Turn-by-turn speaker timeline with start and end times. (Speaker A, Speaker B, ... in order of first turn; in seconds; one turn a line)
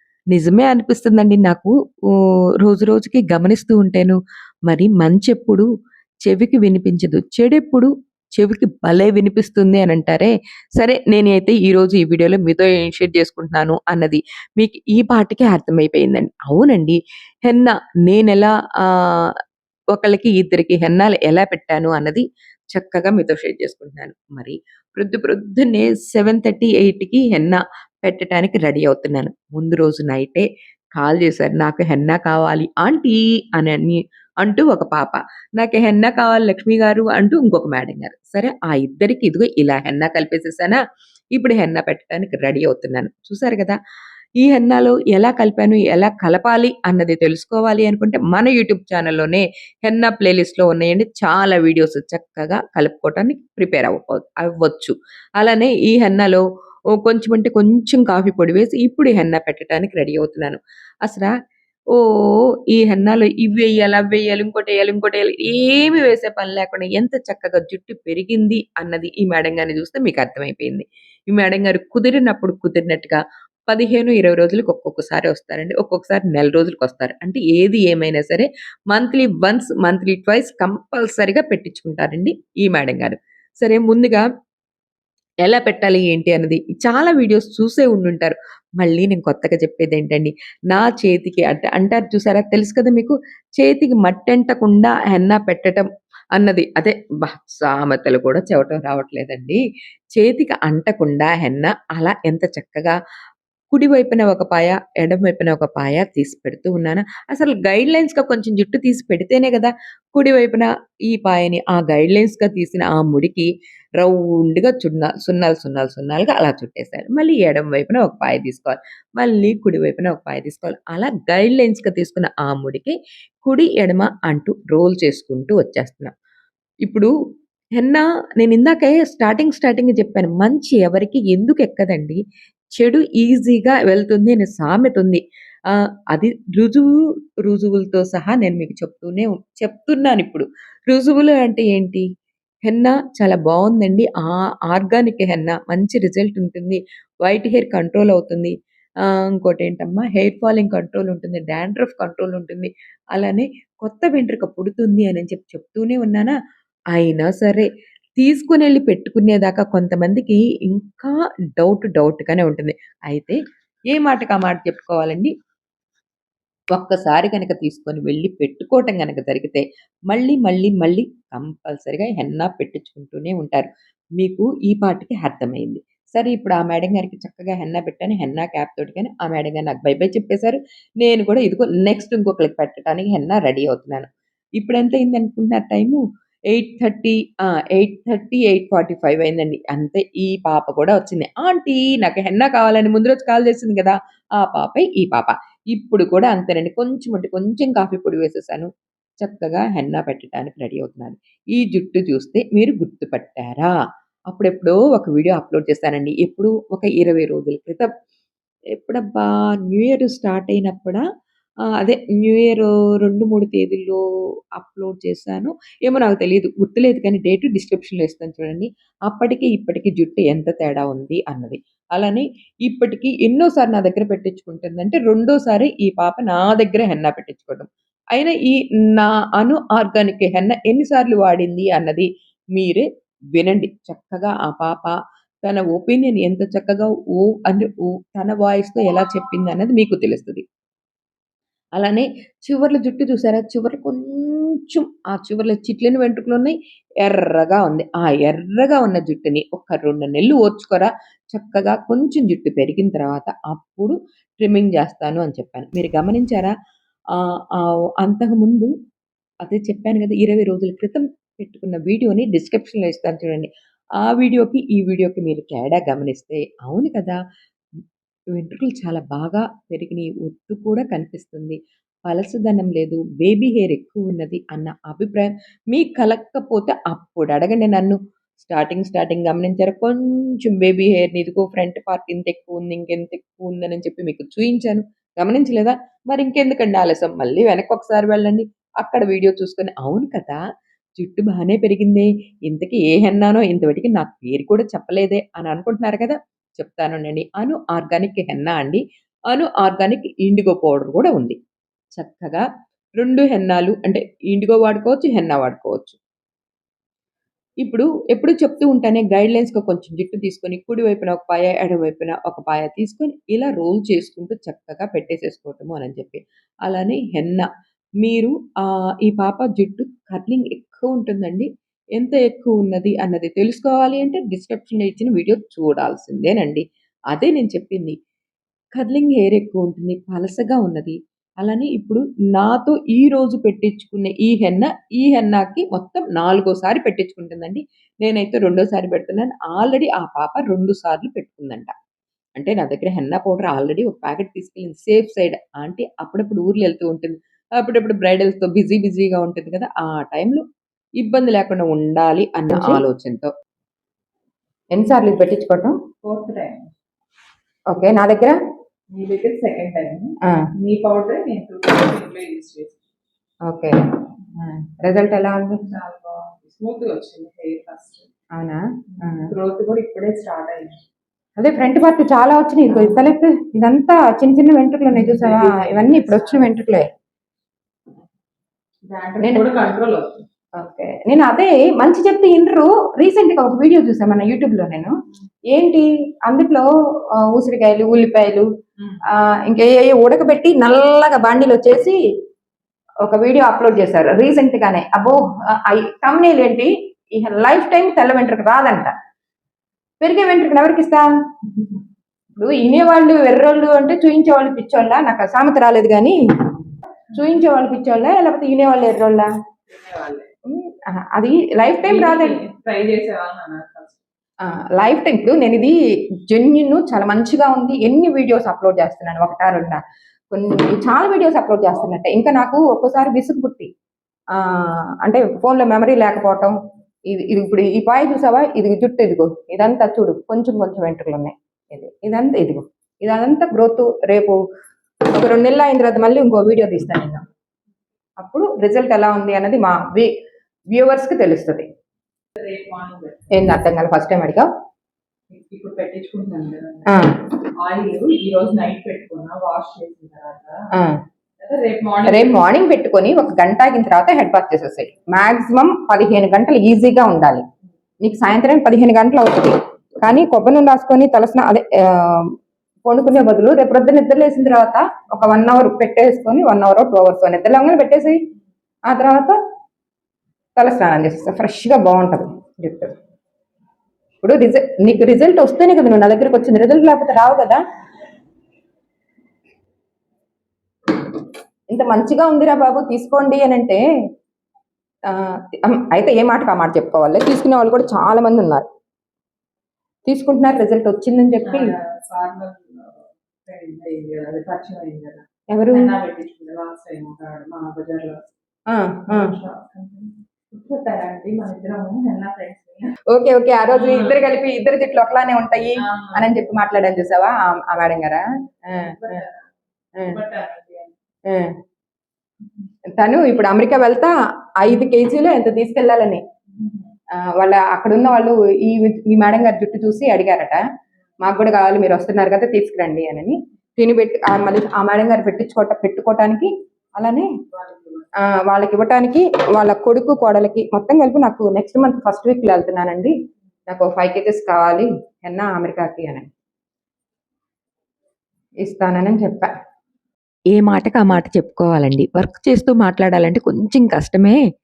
Speaker A: 0.3-1.7
Speaker A: 2.6-4.2
Speaker A: 4.7-5.7
Speaker A: 6.2-19.4
Speaker A: 19.9-40.8
Speaker A: 41.3-43.8
Speaker A: 44.4-56.4
Speaker A: 56.9-61.3
Speaker A: 61.9-84.2
Speaker A: 85.4-99.6
Speaker A: 100.2-103.0
Speaker A: 103.7-126.1
Speaker A: 126.8-127.1
Speaker A: 127.8-132.2
Speaker A: 132.8-135.2
Speaker A: 135.7-136.9
Speaker A: 137.4-142.1
Speaker A: 142.7-156.3
Speaker A: 156.9-163.4
Speaker A: 163.9-165.3
Speaker A: 166.7-198.7
Speaker A: 199.2-203.8
Speaker A: 204.3-207.9
Speaker A: 208.8-211.0
Speaker A: 211.8-214.0
Speaker A: 214.6-240.4
Speaker A: 241.8-256.5
Speaker A: 257.1-258.7
Speaker A: 259.4-267.2
Speaker A: 268.3-290.4
Speaker A: 291.0-301.4
Speaker A: 302.0-302.4
Speaker A: 303.0-306.0
Speaker A: 307.6-317.5
Speaker A: 318.0-327.9
Speaker A: 328.8-341.7
Speaker A: 342.4-350.4
Speaker A: 351.0-353.3
Speaker B: 352.5-352.8
Speaker B: 354.7-355.8
Speaker C: 356.0-356.7
Speaker B: 357.7-358.4
Speaker C: 358.9-362.8
Speaker B: 363.5-363.7
Speaker B: 364.4-365.6
Speaker C: 365.6-368.1
Speaker B: 368.4-369.3
Speaker C: 369.0-370.8
Speaker B: 371.4-376.9
Speaker C: 374.9-376.6
Speaker C: 378.9-380.2
Speaker B: 379.2-379.5
Speaker B: 380.6-384.9
Speaker B: 385.5-388.5
Speaker B: 389.1-392.0
Speaker B: 393.0-398.9
Speaker B: 400.0-401.0
Speaker B: 402.4-406.1
Speaker B: 407.1-409.3
Speaker C: 409.7-410.3
Speaker B: 410.5-412.4
Speaker C: 411.8-414.0
Speaker B: 414.4-415.8
Speaker B: 416.3-423.7
Speaker B: 424.3-426.6
Speaker B: 427.1-434.4
Speaker B: 435.1-437.2
Speaker B: 438.2-440.1
Speaker B: 440.7-441.6
Speaker C: 442.4-443.3
Speaker B: 443.3-444.5
Speaker C: 445.3-447.0
Speaker B: 446.9-447.2
Speaker C: 447.6-450.7
Speaker C: 451.4-452.4
Speaker B: 452.1-457.4
Speaker B: 458.0-468.2
Speaker B: 468.9-469.4
Speaker B: 470.6-472.9
Speaker B: 474.2-477.6
Speaker B: 481.7-483.8
Speaker B: 485.1-488.7
Speaker B: 490.1-491.7
Speaker C: 491.4-498.2
Speaker B: 495.5-495.9
Speaker B: 498.7-499.3
Speaker C: 499.1-502.9
Speaker B: 503.1-509.2
Speaker C: 503.7-504.2
Speaker C: 505.8-506.3
Speaker C: 508.7-509.5
Speaker C: 510.0-510.9
Speaker B: 511.3-511.5
Speaker B: 512.9-516.2
Speaker C: 516.6-516.9
Speaker B: 517.1-520.6
Speaker B: 521.2-527.3
Speaker C: 527.5-528.1
Speaker B: 528.2-533.1
Speaker B: 533.7-536.3
Speaker B: 538.6-539.5
Speaker A: 540.5-544.4